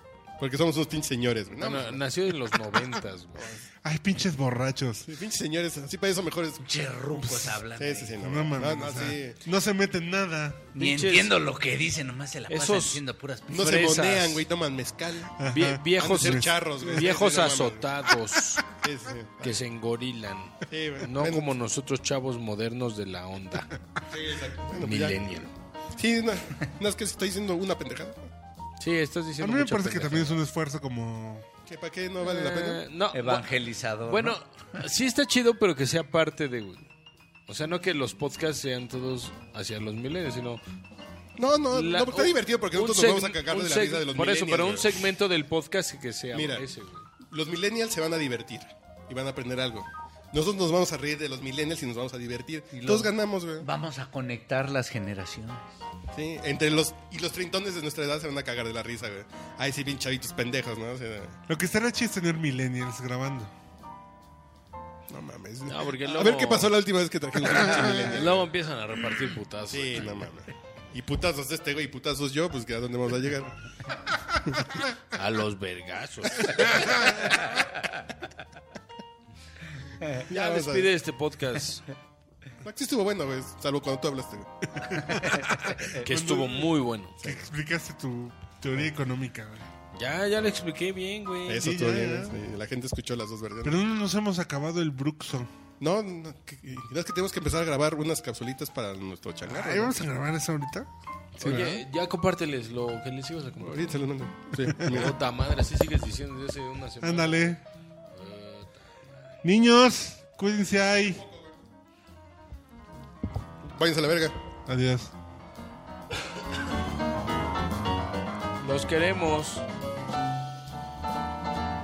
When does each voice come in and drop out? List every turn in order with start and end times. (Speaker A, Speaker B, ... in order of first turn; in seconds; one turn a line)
Speaker A: 0.4-2.0
Speaker B: 1.6-3.5
Speaker C: 3.8-5.1
Speaker A: 5.0-9.4
Speaker D: 6.6-8.2
Speaker C: 8.2-10.7
Speaker D: 10.7-13.9
Speaker B: 10.8-11.3
Speaker B: 12.5-13.0
Speaker A: 13.5-15.3
Speaker B: 13.6-14.4
Speaker C: 15.4-17.1
Speaker B: 15.5-18.6
Speaker A: 16.0-17.9
Speaker A: 18.8-19.6
Speaker B: 19.4-23.8
Speaker A: 20.7-21.5
Speaker A: 24.1-28.3
Speaker B: 24.8-25.5
Speaker B: 28.8-30.4
Speaker C: 29.4-31.4
Speaker A: 31.6-32.8
Speaker B: 32.2-33.5
Speaker D: 33.1-34.4
Speaker B: 34.0-36.9
Speaker B: 37.5-40.6
Speaker A: 41.4-45.0
Speaker B: 41.7-47.0
Speaker A: 46.3-46.6
Speaker A: 47.2-53.7
Speaker D: 52.8-55.6
Speaker A: 56.1-61.4
Speaker C: 61.5-63.5
Speaker A: 65.1-68.5
Speaker B: 65.7-66.8
Speaker B: 67.4-70.3
Speaker A: 69.7-73.5
Speaker A: 74.4-74.7
Speaker B: 75.1-77.1
Speaker A: 80.2-80.9
Speaker B: 80.3-81.9
Speaker A: 82.6-84.9
Speaker C: 84.9-89.7
Speaker B: 86.0-87.3
Speaker B: 89.9-91.7
Speaker A: 91.5-93.8
Speaker C: 91.6-92.3
Speaker C: 93.6-95.5
Speaker A: 95.8-100.0
Speaker C: 99.4-101.8
Speaker B: 101.4-104.0
Speaker A: 103.6-105.2
Speaker C: 104.8-105.1
Speaker B: 104.8-107.6
Speaker C: 107.0-107.6
Speaker B: 108.1-109.2
Speaker C: 109.4-111.2
Speaker A: 111.0-111.5
Speaker A: 113.6-114.4
Speaker C: 114.7-115.1
Speaker B: 118.6-119.6